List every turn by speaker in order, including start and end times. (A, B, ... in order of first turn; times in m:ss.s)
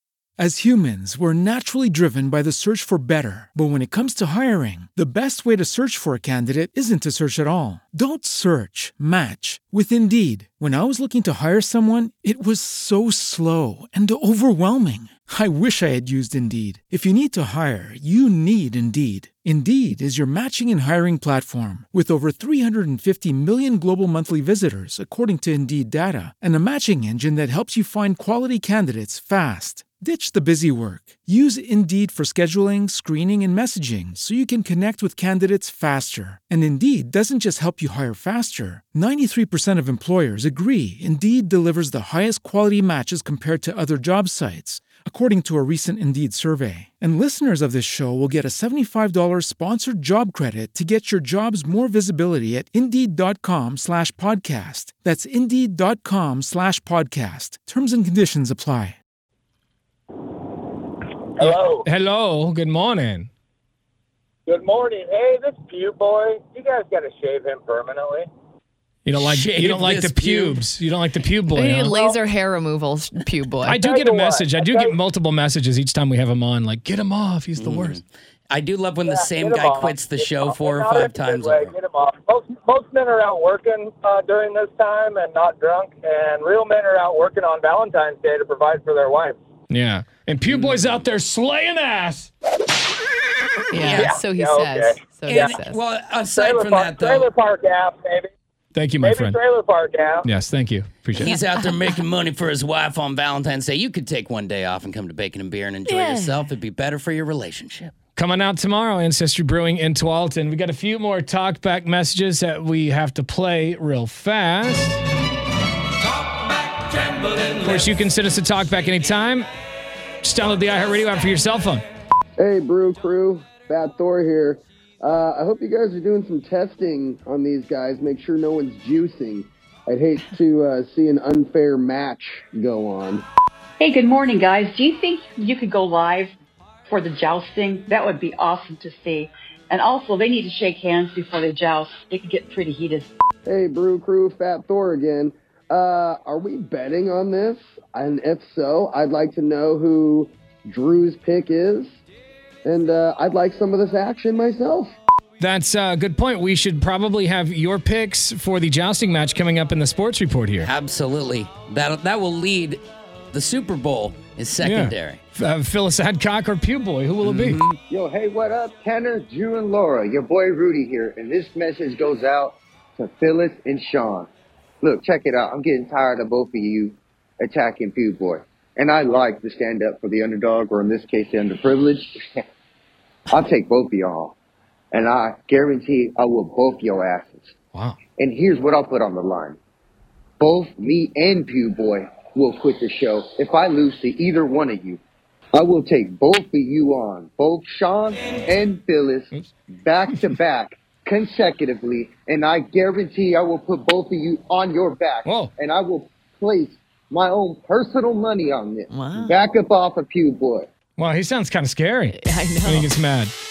0:00.4-0:59.0 A
1:01.4-1:01.8 B
1:01.4-1:03.3 C
1:04.5-1:08.3 B
1:09.1-1:11.9 C
1:09.2-1:10.6 D
1:11.6-1:13.8 E
1:13.6-1:18.0 C
1:13.8-1:14.9 B
1:17.6-1:21.7 D
1:19.1-1:29.4 B
1:29.7-1:32.3 C
1:30.5-1:30.8 D
1:33.7-1:35.8 E
1:33.8-1:34.2 D
1:33.9-1:35.5 B
1:35.3-1:37.3 D
1:36.3-1:38.3 B
1:38.8-1:39.4 C
1:39.0-1:40.3 B
1:40.2-1:41.4 C
1:41.2-1:47.9 D
1:41.3-1:41.7 E
1:45.9-1:46.4 E
1:48.2-1:55.0 C
1:57.6-1:59.5 C
2:00.2-2:01.8 C
2:02.4-2:13.2 F
2:13.8-2:16.3 G
2:16.9-2:23.1 G
2:23.5-2:32.0 F
2:32.6-2:34.9 F
2:35.4-2:40.7 C
2:40.6-2:42.8 D
2:43.3-2:45.2 D
2:44.6-2:47.6 C
2:47.2-2:47.8 D
2:47.9-2:54.3 H
2:54.8-3:02.4 H
3:03.3-3:04.4 H
3:04.9-3:07.5 H
3:08.2-3:09.6 H
3:10.4-3:15.0 H
3:15.5-3:30.7 H
3:25.3-3:25.5 C
3:28.9-3:29.4 E
3:31.0-3:33.3 C
3:32.1-3:32.9 E